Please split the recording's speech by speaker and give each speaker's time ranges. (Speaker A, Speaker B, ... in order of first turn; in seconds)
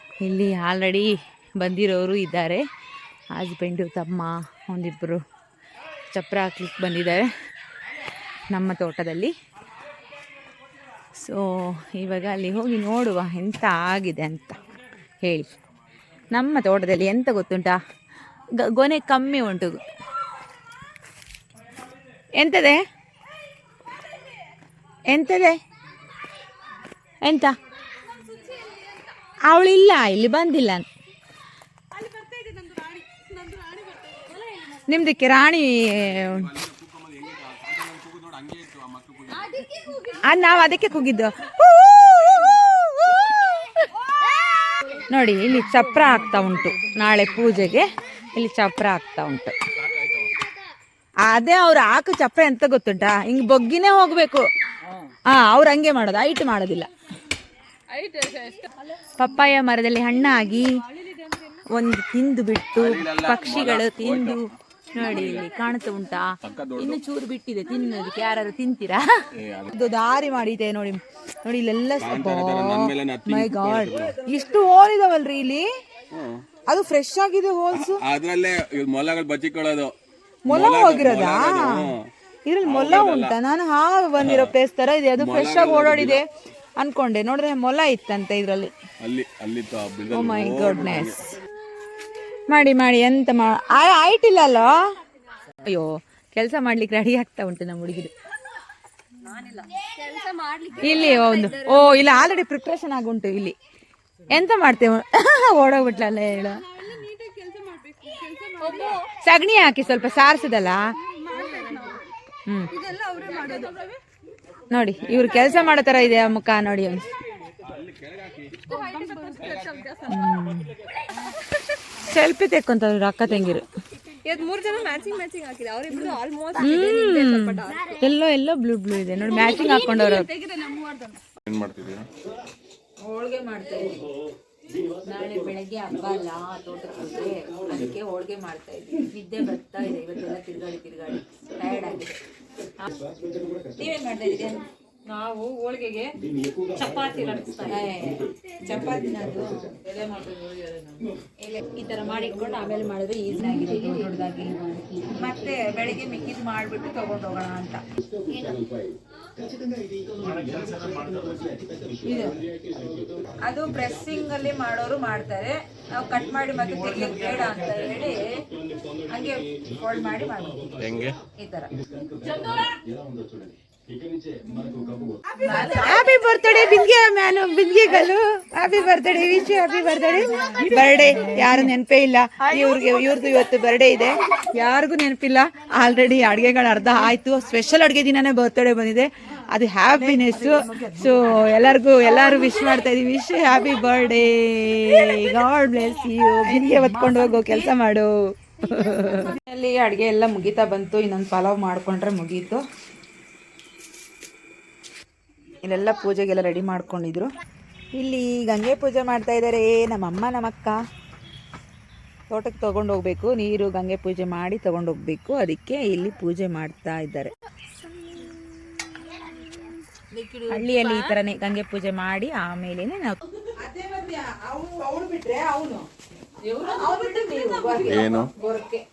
Speaker A: 0.2-2.6, 3.3-5.2, 6.1-7.3, 8.5-9.3, 11.2-14.6, 15.2-15.6, 16.3-17.8, 18.6-19.8, 22.4-22.8, 25.1-25.6, 27.2-27.5, 29.5-30.9, 34.9-36.5, 40.2-43.5, 45.1-49.5, 51.2-54.5, 55.3-56.9, 59.2-60.7, 61.7-69.1, 69.7-75.7, 76.7-78.0, 80.5-81.9, 82.5-86.2, 86.8-88.7, 90.1-91.2, 92.5-94.8, 95.6-98.1, 100.8-103.5, 104.3-106.6, 109.2-110.8, 114.7-117.0, 120.1-120.7, 122.1-123.7, 126.6-130.3, 133.0-134.0, 135.1-142.2, 143.8-144.6, 147.7-150.3, 151.4-157.8, 162.1-162.3, 163.4-168.4, 169.1-171.7, 174.5-174.8, 175.3-202.6, 205.6-207.3, 207.9-210.8, 212.3-217.3, 220.5-225.9, 226.6-228.8
Speaker B: 32.0-34.4, 39.4-40.2, 58.0-58.5, 99.3-102.0, 106.9-109.1, 111.2-112.0, 112.7-113.8, 118.7-120.2, 124.2-127.9, 129.7-131.2, 145.2-145.8, 146.8-147.8, 220.2-221.0, 226.5-228.3
Speaker C: 36.1-39.5, 62.8-64.4, 65.0-65.5, 66.4-67.0, 69.4-69.7, 72.0-74.2, 76.1-76.4, 77.7-79.9, 80.5-82.0, 82.6-83.3, 84.2-84.5, 85.2-86.2, 89.0-91.3, 117.7-118.6, 119.5-119.7, 131.5-132.1, 170.8-171.2, 227.8-228.3